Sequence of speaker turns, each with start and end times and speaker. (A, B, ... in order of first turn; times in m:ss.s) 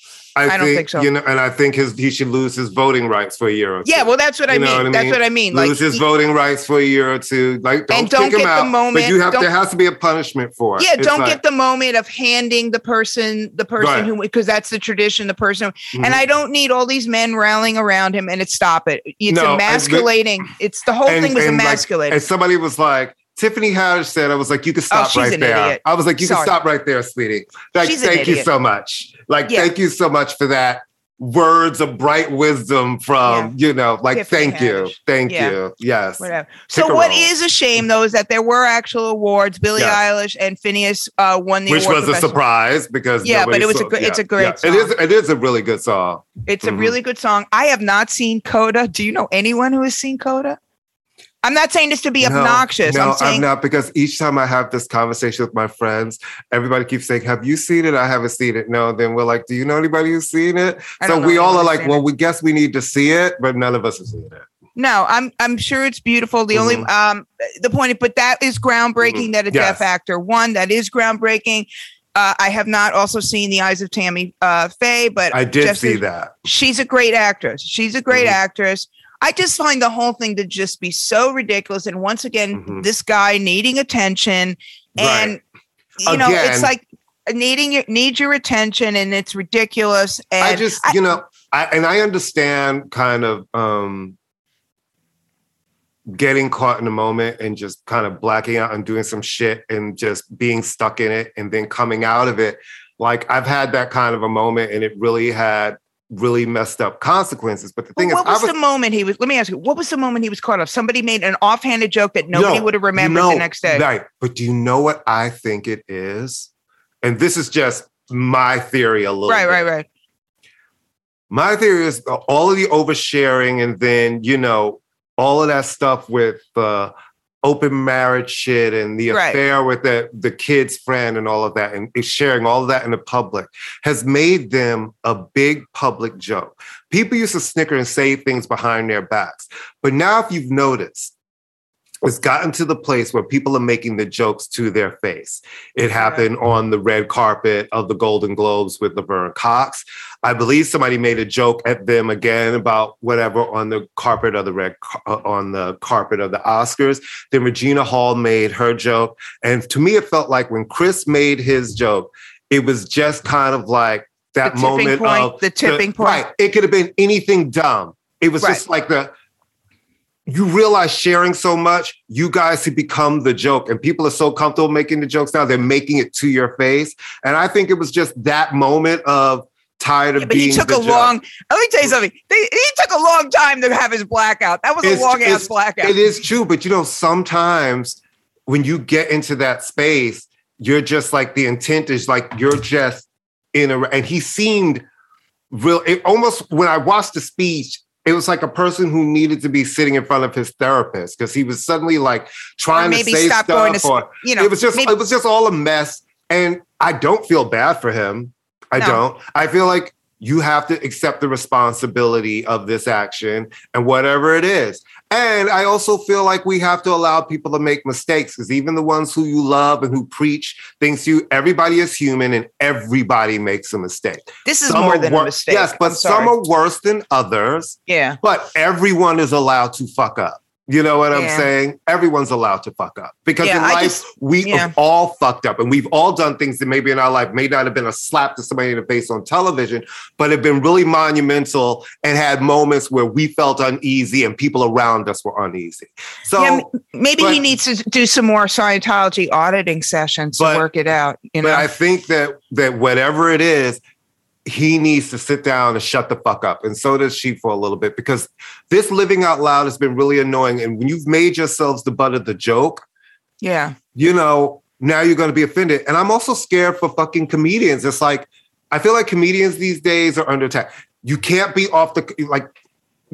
0:00.4-0:11.4 A
0:00.5-0:01.1 B
0:03.8-0:06.0 B
0:07.9-0:09.5 B
0:10.8-0:22.2 B
0:13.8-0:14.1 A
0:15.9-0:16.2 A
0:19.3-0:20.1 A
0:21.0-0:37.3 A
0:24.9-0:26.5 B
0:27.8-0:28.5 B
0:33.2-0:33.5 B
0:34.1-0:35.6 B
0:36.2-0:42.4 B
0:41.7-0:46.9 A
0:43.2-0:44.9 B
0:46.4-0:50.6 B
0:51.4-0:53.4 B
0:52.2-1:04.4 A
1:01.0-1:02.0 B
1:04.8-1:25.4 B
1:06.5-1:06.9 A
1:09.1-1:09.8 A
1:15.3-1:16.4 A
1:18.1-1:18.4 A
1:22.6-1:22.8 A
1:25.0-1:25.4 A
1:26.0-1:31.0 B
1:26.0-1:26.7 A
1:30.4-1:34.2 A
1:36.1-1:48.5 A
1:48.0-1:53.8 B
1:52.3-1:56.5 A
1:57.0-1:59.6 A
1:59.3-1:59.9 B
2:01.3-2:21.1 A
2:09.1-2:09.4 B
2:22.0-2:49.1 A
2:44.4-2:46.2 B
2:50.3-3:01.1 A
3:00.2-3:06.1 B
3:04.8-3:14.8 A
3:15.5-4:07.4 A
3:22.7-3:24.9 B
3:44.4-3:46.3 B
3:47.9-3:48.2 B
3:51.1-3:51.5 B
3:53.4-3:54.7 B
4:06.4-4:11.7 B
4:10.4-4:10.6 A
4:11.4-4:13.8 A
4:14.4-4:22.8 A
4:23.4-4:23.8 B
4:23.9-4:32.5 A